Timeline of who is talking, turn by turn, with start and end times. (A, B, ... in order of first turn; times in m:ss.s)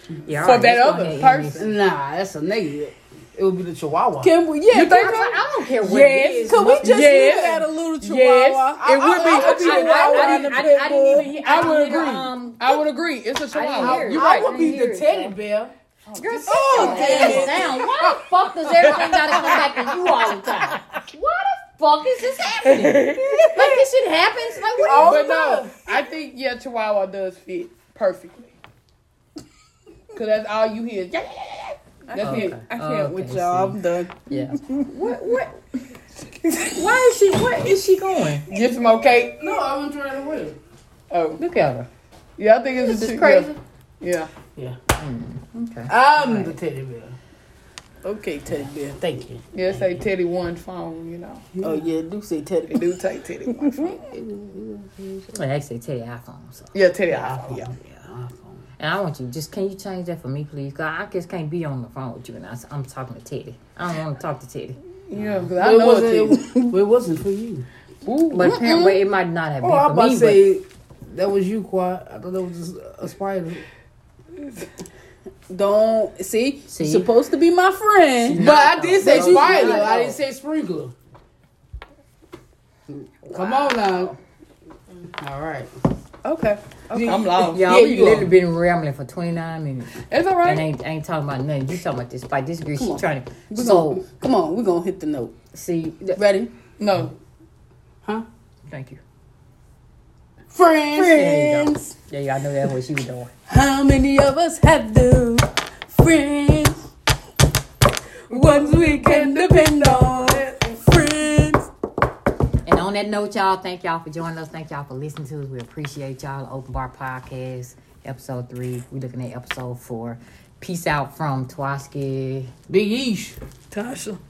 0:00.2-0:01.7 A
0:00.3-0:01.7 B
0:01.6-0:04.3 C
0:04.2-0:05.3 D
0:04.7-0:10.6 B
0:04.9-0:07.0 A
0:06.0-0:11.6 D
0:06.6-0:07.3 C
0:08.8-0:10.2 C
0:09.2-0:12.8 A
0:11.2-0:14.5 B
0:13.5-0:15.4 A
0:13.8-0:15.7 C
0:16.1-0:17.8 B
0:16.2-0:25.4 A
0:16.5-0:18.1 C
0:16.5-0:17.5 D
0:18.8-0:19.8 B
0:22.6-0:23.7 B
0:24.8-0:25.8 C
0:24.9-0:28.6 B
0:30.1-0:32.5 B
0:32.1-0:34.9 D
0:32.2-0:35.7 A
0:36.7-0:38.5 A
0:38.5-0:39.4 B
0:39.4-0:40.6 C
0:41.1-0:41.4 B
0:41.4-0:41.9 A
0:42.4-0:44.3 B
0:42.8-0:43.6 A
0:45.0-0:46.6 A
0:45.9-0:47.2 C
0:48.0-0:49.0 D
0:48.5-0:50.0 C
0:49.5-0:51.5 B
0:51.6-0:51.9 C
0:51.6-0:52.9 D
0:52.7-0:54.1 B
0:53.9-0:55.3 C
0:55.3-0:56.7 A
0:56.7-0:57.7 B
0:57.1-0:58.6 C
0:57.5-0:58.0 A
0:58.8-1:04.8 A
1:05.1-1:06.4 B
1:05.2-1:07.7 C
1:06.3-1:06.7 D
1:08.1-1:08.8 D
1:08.3-1:10.4 A
1:08.4-1:09.0 B
1:09.6-1:13.6 C
1:15.5-1:20.0 D
1:16.7-1:17.1 A
1:18.2-1:20.2 A
1:18.3-1:20.9 C
1:18.4-1:19.2 B
1:23.2-1:24.2 A
1:23.3-1:24.1 C
1:25.2-1:25.7 C
1:26.2-1:27.5 D
1:26.9-1:28.3 C
1:27.0-1:28.3 B
1:27.4-1:34.0 A
1:30.1-1:30.7 B
1:32.8-1:35.3 D
1:35.5-1:36.2 A
1:36.2-1:36.5 D
1:36.8-1:37.1 B
1:38.7-1:39.0 A
1:40.5-1:41.3 C
1:40.8-1:42.0 D
1:41.0-1:43.3 A
1:43.5-1:46.9 D
1:48.3-1:51.7 D
1:48.3-1:50.9 B
1:52.6-2:02.5 A
2:02.7-2:03.4 C
2:03.7-2:04.2 B